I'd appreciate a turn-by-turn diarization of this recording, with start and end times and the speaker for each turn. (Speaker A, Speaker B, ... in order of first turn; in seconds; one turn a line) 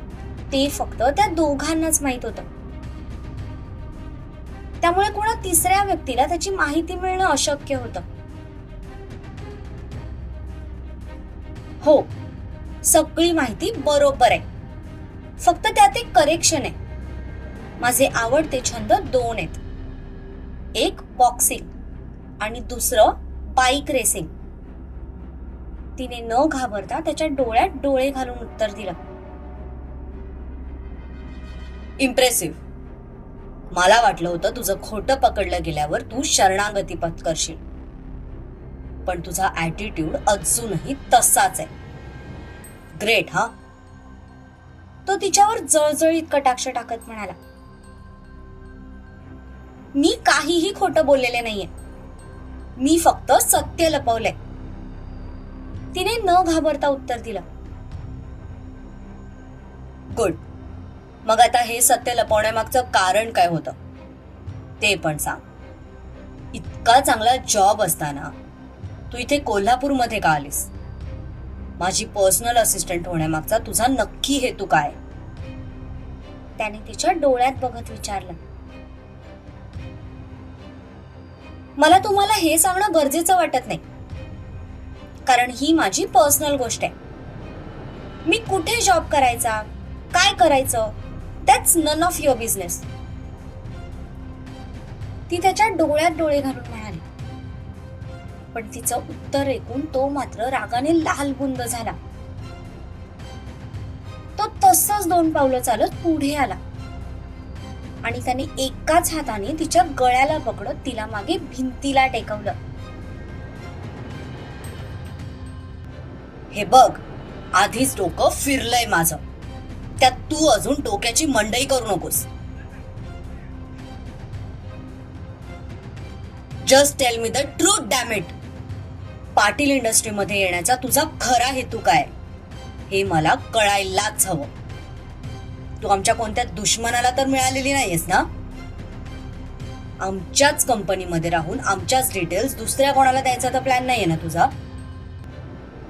Speaker A: 0.5-2.5
Speaker A: 4.8-8.0
Speaker A: 11.8-12.1
Speaker A: 12.8-14.4
Speaker A: 15.4-16.7
Speaker A: 17.8-19.6
Speaker A: 20.7-21.7
Speaker A: 22.4-24.3
Speaker A: 26.0-29.0
Speaker B: 32.0-32.6
Speaker B: 33.7-37.6
Speaker B: 39.0-41.7
Speaker B: 43.0-43.5
Speaker A: 45.0-47.4
Speaker A: 49.9-51.7
Speaker A: 52.8-54.3
Speaker A: 55.9-57.4
Speaker B: 60.1-60.4
Speaker B: 61.2-63.7
Speaker B: 64.8-65.4
Speaker B: 66.5-68.3
Speaker B: 69.1-70.7
Speaker B: 71.8-75.0
Speaker A: 76.6-78.4
Speaker A: 81.8-83.8
Speaker A: 85.2-86.9
Speaker A: 88.2-92.8
Speaker A: 95.3-97.0
Speaker A: 98.5-102.0
Speaker A: 104.4-106.6
Speaker A: 108.0-112.5
Speaker B: 116.5-117.0
Speaker B: 117.5-119.2
Speaker B: 120.0-122.3
Speaker B: 126.6-128.3
Speaker B: 129.3-132.1
Speaker B: 132.9-134.5
Speaker B: 135.8-138.3
Speaker B: 140.0-144.5